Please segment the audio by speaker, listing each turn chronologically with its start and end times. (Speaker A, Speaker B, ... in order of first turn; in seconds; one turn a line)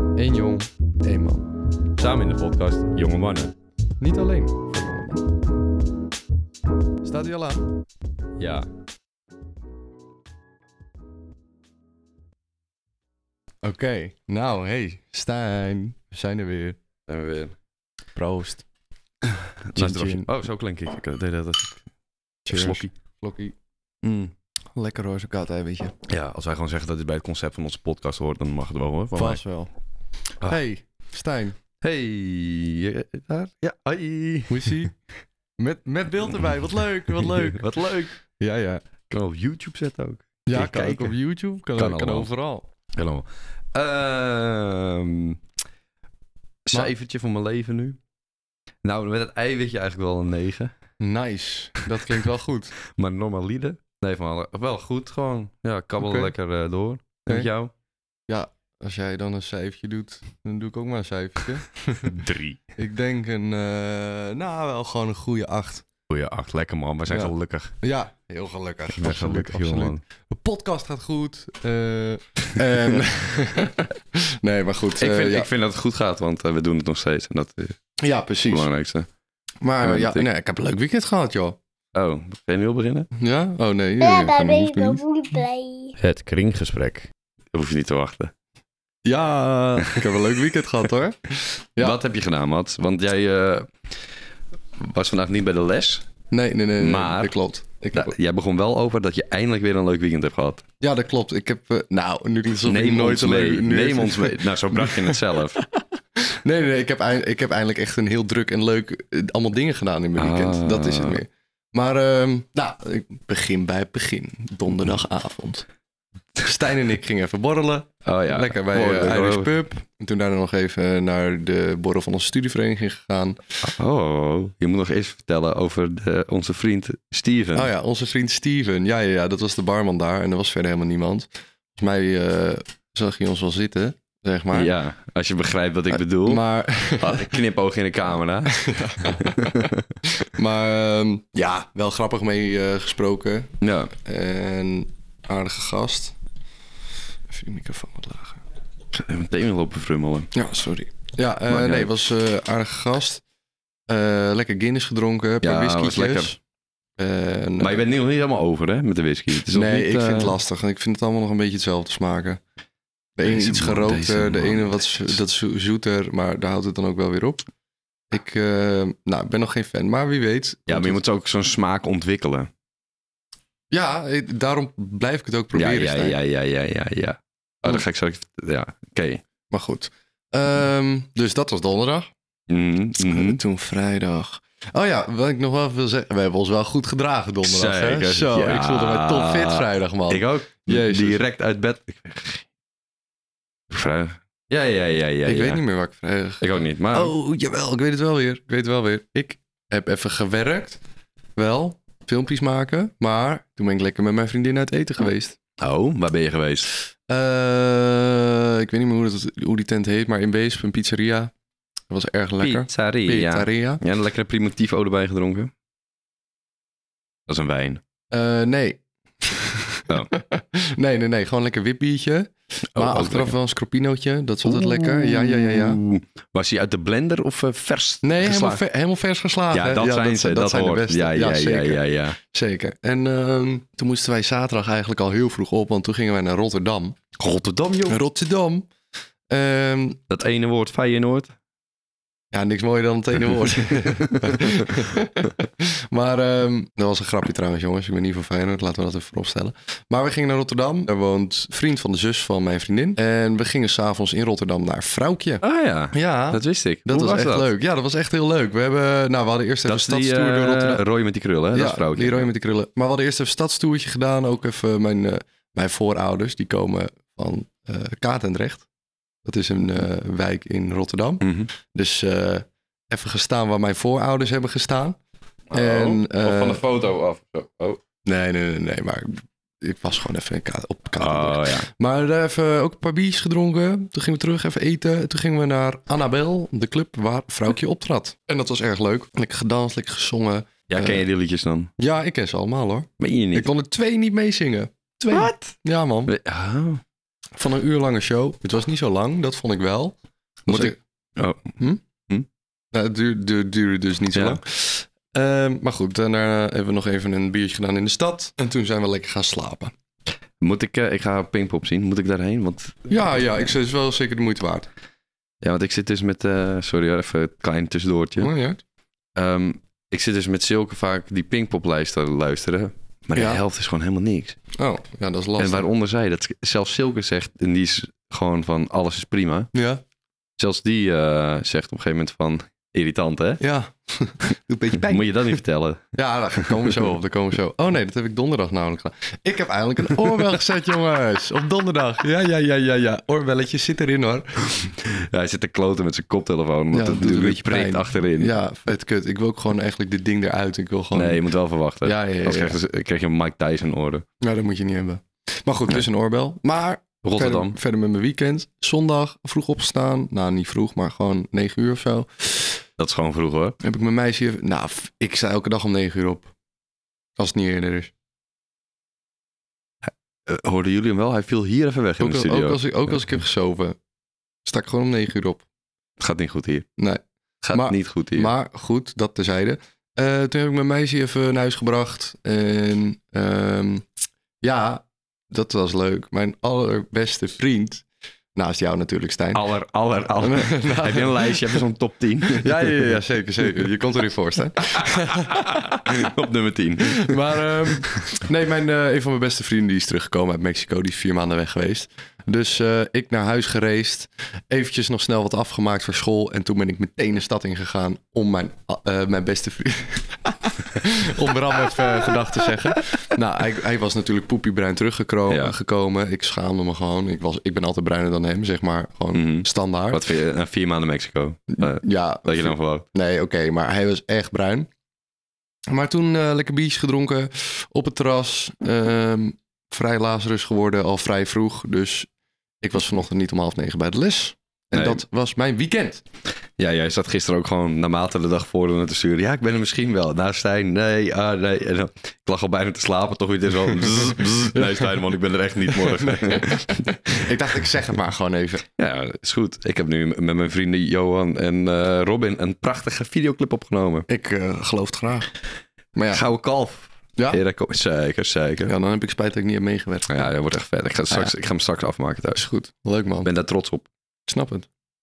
Speaker A: 0.2-1.5
Speaker B: 2.0-3.5
Speaker A: 4.0-5.2
Speaker A: 7.0-7.7
Speaker B: 8.4-8.7
Speaker A: 13.6-16.8
Speaker B: 17.1-17.6
Speaker A: 18.2-18.6
Speaker B: 19.3-21.8
Speaker A: 19.8-20.3
Speaker A: 22.4-23.6
Speaker B: 22.5-22.9
Speaker B: 24.0-24.3
Speaker A: 24.7-26.0
Speaker B: 26.1-29.4
Speaker A: 29.1-29.7
Speaker A: 30.4-31.6
Speaker B: 31.8-34.9
Speaker A: 34.5-34.9
Speaker A: 35.6-37.7
Speaker B: 37.4-38.2
Speaker A: 38.2-38.8
Speaker B: 39.1-41.2
Speaker A: 40.5-42.7
Speaker B: 41.8-42.3
Speaker B: 43.0-45.4
Speaker B: 46.6-48.0
Speaker B: 48.8-50.7
Speaker A: 51.0-52.7
Speaker B: 52.9-57.7
Speaker A: 56.0-56.3
Speaker A: 58.3-62.2
Speaker B: 62.0-62.7
Speaker A: 62.8-65.9
Speaker B: 66.1-67.8
Speaker A: 67.1-75.5
Speaker B: 68.9-70.0
Speaker B: 75.0-77.8
Speaker A: 78.0-78.7
Speaker B: 78.5-79.1
Speaker A: 79.6-81.6
Speaker B: 79.8-80.3
Speaker B: 81.9-83.1
Speaker A: 83.2-85.0
Speaker C: 84.0-86.0
Speaker B: 86.0-88.3
Speaker A: 89.0-92.0
Speaker B: 91.8-93.7
Speaker B: 94.8-96.1
Speaker A: 96.3-98.2
Speaker B: 96.8-97.3
Speaker B: 97.9-100.7
Speaker A: 100.8-115.7
Speaker B: 102.7-105.6
Speaker B: 110.2-111.2
Speaker A: 116.4-123.4
Speaker B: 118.0-119.5
Speaker B: 123.6-127.7
Speaker A: 127.5-134.7
Speaker B: 134.5-136.4
Speaker A: 135.9-137.4
Speaker B: 137.0-140.0
Speaker A: 138.5-146.2
Speaker B: 143.6-143.9
Speaker A: 147.3-148.4
Speaker B: 148.9-150.3
Speaker A: 150.3-153.2
Speaker B: 151.5-151.9
Speaker A: 153.9-156.3
Speaker B: 155.4-156.4
Speaker A: 157.0-157.8
Speaker B: 157.6-160.4
Speaker A: 159.5-162.4
Speaker A: 163.2-167.4
Speaker B: 163.2-164.8
Speaker A: 168.1-171.0
Speaker B: 170.7-172.5
Speaker A: 173.7-176.2
Speaker B: 175.5-179.2
Speaker A: 179.5-182.1
Speaker B: 182.5-183.4
Speaker A: 183.0-191.2
Speaker B: 187.4-192.5
Speaker B: 193.7-195.6
Speaker A: 195.2-200.8
Speaker B: 196.4-197.1
Speaker A: 201.4-205.4
Speaker B: 205.6-206.7
Speaker A: 207.1-211.3
Speaker A: 211.9-213.8
Speaker B: 212.4-215.5
Speaker B: 217.3-217.8
Speaker A: 218.1-225.8
Speaker B: 219.9-220.1
Speaker B: 222.7-223.3
Speaker B: 224.4-228.6
Speaker A: 228.0-237.0
Speaker B: 229.5-232.2
Speaker B: 237.2-238.0
Speaker A: 237.9-238.7
Speaker A: 239.3-240.0
Speaker B: 240.1-241.3
Speaker A: 242.3-260.8
Speaker B: 244.0-244.7
Speaker B: 255.4-257.5
Speaker B: 259.7-262.3
Speaker A: 261.5-268.7
Speaker A: 269.2-275.0
Speaker B: 271.2-271.5
Speaker B: 275.5-277.8
Speaker A: 275.5-276.6
Speaker A: 278.1-291.0
Speaker B: 281.0-281.7
Speaker B: 290.7-291.7
Speaker A: 291.8-296.1
Speaker B: 293.0-293.5
Speaker B: 295.1-295.5
Speaker B: 296.1-296.8
Speaker A: 297.4-299.9
Speaker A: 300.5-300.8
Speaker B: 300.5-301.6
Speaker A: 302.7-309.7
Speaker B: 304.1-304.4
Speaker B: 310.4-312.9
Speaker A: 312.9-314.7
Speaker B: 315.4-318.3
Speaker A: 318.2-318.6
Speaker B: 319.2-324.4
Speaker A: 323.1-323.4
Speaker A: 324.5-325.7
Speaker B: 325.4-329.5
Speaker A: 329.5-329.8
Speaker B: 330.4-333.4
Speaker A: 333.4-335.4
Speaker B: 334.8-336.8
Speaker A: 335.9-344.7
Speaker B: 344.7-348.4
Speaker A: 346.7-351.2
Speaker B: 350.9-354.1
Speaker A: 351.8-352.6
Speaker A: 354.2-362.6
Speaker B: 357.0-357.6
Speaker B: 362.8-363.6
Speaker A: 363.6-366.3
Speaker A: 367.2-367.9
Speaker B: 369.8-372.6
Speaker A: 372.0-373.8
Speaker A: 374.4-375.4
Speaker B: 376.0-376.7
Speaker A: 376.8-383.9
Speaker B: 377.4-378.3
Speaker A: 384.4-389.4
Speaker B: 389.3-392.9
Speaker A: 390.2-391.6
Speaker A: 392.3-396.1
Speaker B: 394.6-398.0
Speaker A: 396.8-420.0
Speaker B: 415.3-415.5
Speaker B: 419.1-422.9
Speaker A: 421.5-424.7
Speaker A: 425.7-432.1
Speaker A: 432.6-436.0
Speaker B: 434.7-435.0
Speaker B: 436.6-447.3
Speaker A: 444.5-444.9
Speaker A: 445.7-448.6
Speaker B: 448.8-454.1
Speaker A: 454.1-455.3
Speaker A: 455.9-456.2
Speaker B: 456.1-458.7
Speaker A: 458.7-460.3
Speaker B: 460.1-462.4
Speaker A: 462.3-463.3
Speaker B: 463.2-463.9
Speaker A: 464.3-464.7